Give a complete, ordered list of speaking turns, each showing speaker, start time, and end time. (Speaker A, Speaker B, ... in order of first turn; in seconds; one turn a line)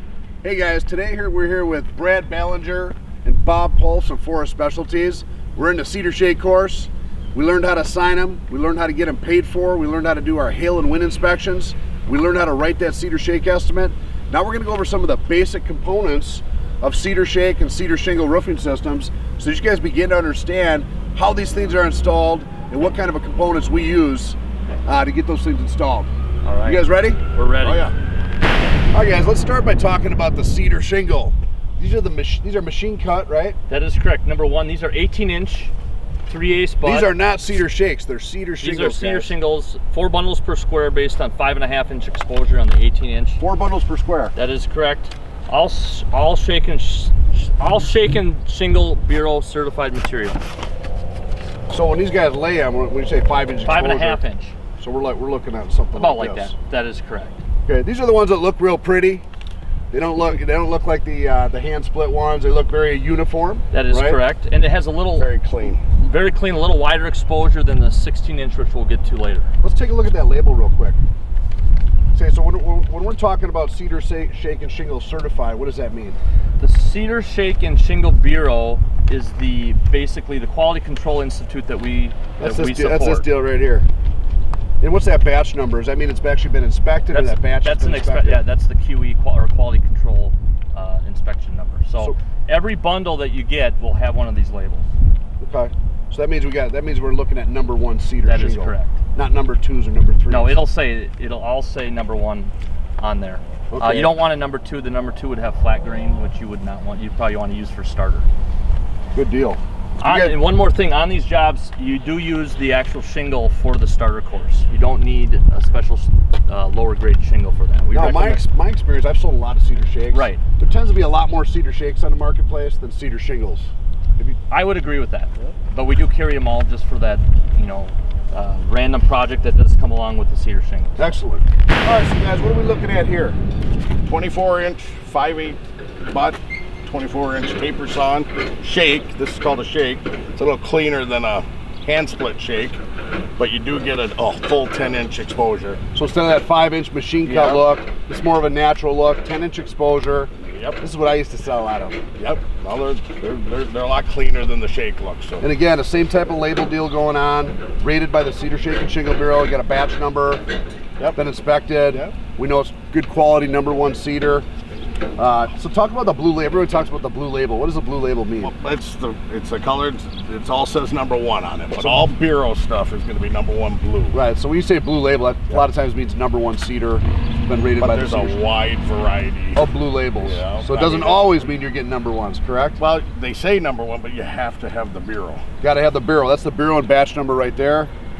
Speaker A: 0.4-26.1
Speaker B: 26.4-27.9
Speaker A: 26.6-27.2
Speaker C: 27.6-27.9
Speaker A: 28.9-33.6
Speaker B: 33.7-35.7
Speaker B: 36.3-37.1
Speaker A: 36.8-39.3
Speaker B: 38.6-43.4
Speaker A: 43.4-44.3
Speaker B: 44.4-50.4
Speaker A: 51.7-54.2
Speaker B: 53.6-54.5
Speaker A: 54.8-56.5
Speaker B: 55.9-57.4
Speaker A: 57.7-59.2
Speaker A: 59.9-64.2
Speaker B: 63.7-65.3
Speaker C: 65.2-65.8
Speaker B: 66.0-69.5
Speaker A: 69.6-71.0
Speaker A: 72.1-76.2
Speaker B: 76.6-83.2
Speaker A: 82.4-83.9
Speaker A: 84.8-88.4
Speaker B: 87.1-94.9
Speaker A: 95.4-100.6
Speaker B: 98.3-99.0
Speaker B: 100.3-108.3
Speaker A: 103.7-104.1
Speaker A: 109.2-110.4
Speaker B: 110.0-118.4
Speaker A: 117.9-124.4
Speaker B: 120.1-120.4
Speaker B: 124.5-130.9
Speaker A: 131.0-133.4
Speaker C: 134.1-142.8
Speaker C: 143.4-145.8
Speaker A: 145.9-152.0
Speaker C: 147.2-147.6
Speaker C: 150.4-150.8
Speaker C: 152.2-155.4
Speaker A: 155.4-160.4
Speaker A: 161.1-164.5
Speaker C: 161.9-162.1
Speaker A: 165.2-168.5
Speaker C: 168.4-174.2
Speaker A: 171.7-172.1
Speaker A: 174.1-178.4
Speaker C: 177.8-179.6
Speaker A: 179.6-182.8
Speaker C: 180.2-181.5
Speaker C: 182.8-185.4
Speaker A: 185.6-187.9